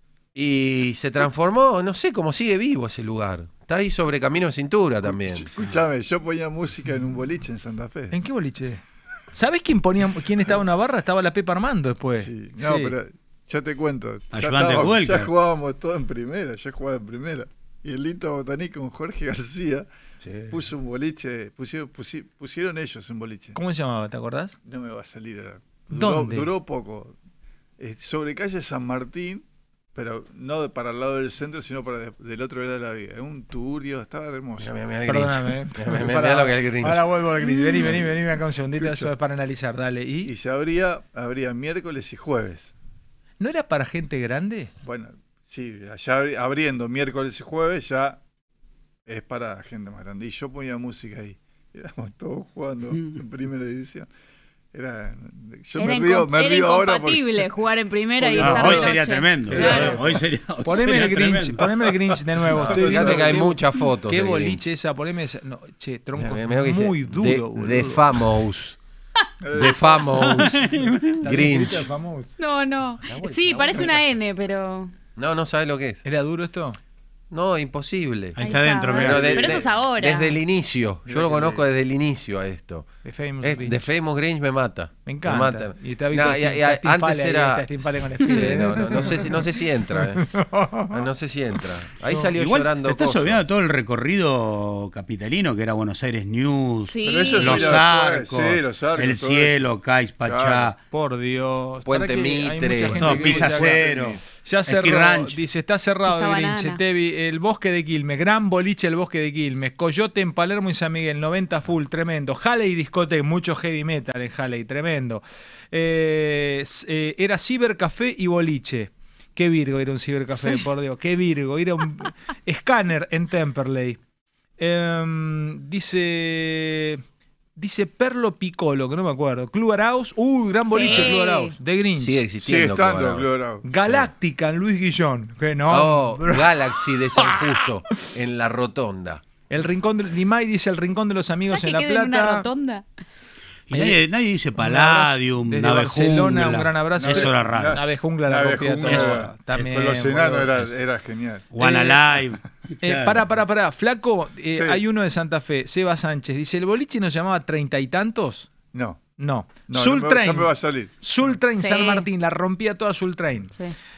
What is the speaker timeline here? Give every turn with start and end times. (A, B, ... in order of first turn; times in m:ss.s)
0:00.3-0:05.5 A
0:05.1-0:08.1 B
0:08.1-0:12.9 C
0:12.2-0:19.9 B
0:14.3-0:15.3 D
0:20.2-0:20.5 C
0:20.5-0:23.6 B
0:23.5-0:24.6 C
0:24.6-0:27.1 B
0:25.9-0:26.5 C
0:27.8-0:34.7 B
0:34.6-0:37.1 A
0:35.1-0:40.3 C
0:37.8-0:38.1 B
0:38.7-0:39.1 B
0:40.2-0:42.7 B
0:43.4-0:44.7 C
0:44.8-0:48.2 B
0:49.1-0:54.1 B
0:52.9-0:53.2 D
0:54.7-0:57.5 B
0:55.8-1:00.0 E
0:58.2-1:00.2 B
0:58.4-1:02.2 D
1:00.6-1:08.1 C
1:02.5-1:03.4 B
1:02.6-1:04.6 A
1:06.2-1:08.8 A
1:09.4-1:10.4 B
1:09.6-1:10.7 A
1:09.6-1:11.3 D
1:11.2-1:12.4 C
1:11.2-1:11.9 A
1:12.4-1:14.9 E
1:13.0-1:14.0 A
1:15.2-1:16.0 A
1:16.0-1:16.8 C
1:17.3-1:30.3 A
1:18.4-1:19.6 D
1:18.4-1:20.4 E
1:21.0-1:21.6 B
1:23.0-1:23.8 C
1:25.0-1:29.4 C
1:30.2-1:30.9 C
1:30.9-1:33.4 A
1:32.4-1:40.8 D
1:36.8-1:37.8 E
1:37.0-1:39.7 B
1:40.2-1:40.7 B
1:40.9-2:04.0 C
1:41.8-1:43.5 A
1:43.0-1:45.4 D
1:43.0-1:44.2 B
1:46.0-1:46.8 E
2:04.6-2:07.0 C
2:07.6-2:12.2 C
2:10.6-2:11.6 E
2:12.0-2:13.3 A
2:12.4-2:13.6 B
2:13.6-2:18.0 C
2:15.7-2:19.2 A
2:19.5-2:22.5 C
2:21.4-2:22.8 E
2:23.7-2:27.8 D
2:23.7-2:24.0 C
2:24.6-2:30.7 C
2:27.0-2:31.5 B
2:28.8-2:29.4 D
2:31.5-2:33.3 D
2:31.6-2:32.1 C
2:32.8-2:38.5 C
2:34.5-2:34.8 B
2:38.7-2:39.0 B
2:39.2-2:43.5 C
2:39.7-2:40.9 B
2:41.6-2:42.1 E